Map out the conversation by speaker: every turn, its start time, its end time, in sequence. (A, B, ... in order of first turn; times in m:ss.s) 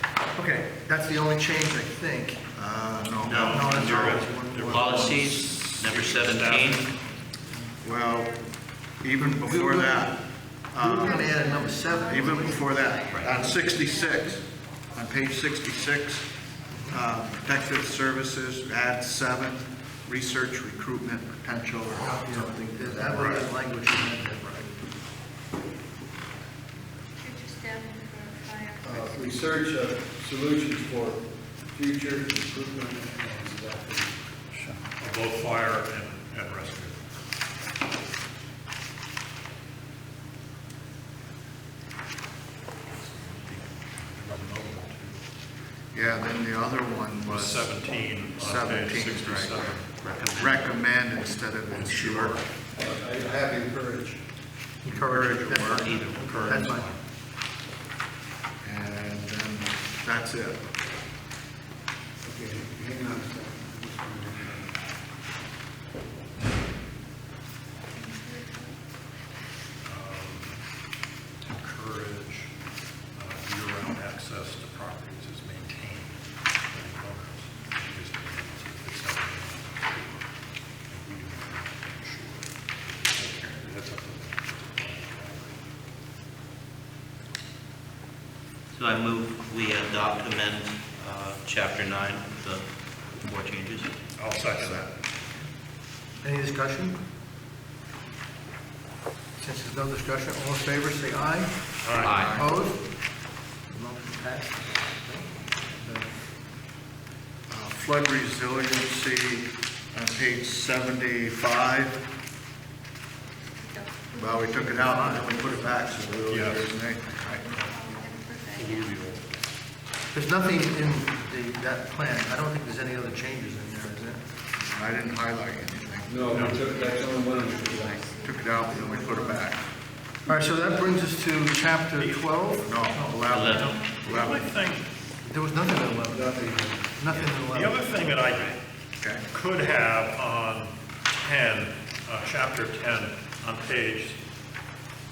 0:00.3-0:02.4 A
0:02.5-0:03.7 B
0:03.2-0:06.8 C
0:03.3-0:06.9 D
0:03.4-0:05.2 A
0:07.8-0:08.4 B
0:09.0-0:11.5 B
0:09.2-0:10.1 A
0:10.8-0:12.6 A
0:11.1-0:14.2 E
0:12.1-0:14.4 B
0:13.1-0:13.4 C
0:14.9-0:16.3 B
0:16.7-0:17.0 A
0:16.9-0:23.5 B
0:22.2-0:24.7 A
0:27.2-0:28.8 E
0:28.8-0:34.2 F
0:35.0-0:37.0 D
0:42.9-0:45.3 D
0:45.9-0:49.7 B
0:47.2-0:50.5 D
0:50.0-0:50.6 C
0:50.4-0:52.4 B
0:51.7-0:52.5 D
0:52.8-0:54.2 F
0:54.8-0:56.9 A
0:54.9-0:56.0 B
0:55.7-0:57.0 C
0:58.6-1:00.6 B
1:02.2-1:04.7 F
1:08.0-1:08.6 E
1:09.8-1:10.6 D
1:11.4-1:12.5 D
1:13.1-1:20.3 D
1:20.9-1:25.6 D
1:28.7-1:32.6 C
1:33.2-1:33.9 C
1:34.2-1:34.9 D
1:34.5-1:34.8 B
1:36.2-1:37.0 A
1:39.4-1:41.5 A
1:41.8-1:42.2 D
1:42.0-1:42.4 C
1:42.2-1:42.5 B
1:42.2-1:42.8 A
1:43.7-1:46.1 A
1:47.5-1:52.0 B
1:53.6-1:54.4 E
1:54.1-1:57.5 B
1:54.5-1:55.6 A
1:56.3-1:56.8 D
1:57.6-1:58.9 E
1:58.5-1:59.5 D
2:00.1-2:04.2 A
2:04.5-2:06.5 B
2:06.1-2:08.1 F
2:06.3-2:06.6 D
2:06.7-2:09.2 E
2:08.2-2:09.6 B
2:10.3-2:13.8 A
2:12.0-2:12.3 D
2:12.6-2:14.5 B
2:13.3-2:13.7 C
2:14.0-2:14.9 D
2:15.2-2:16.4 A
2:16.0-2:17.0 F
2:17.0-2:18.0 A
2:17.1-2:17.4 C
2:17.5-2:18.6 D
2:18.2-2:18.6 C
2:19.3-2:24.2 D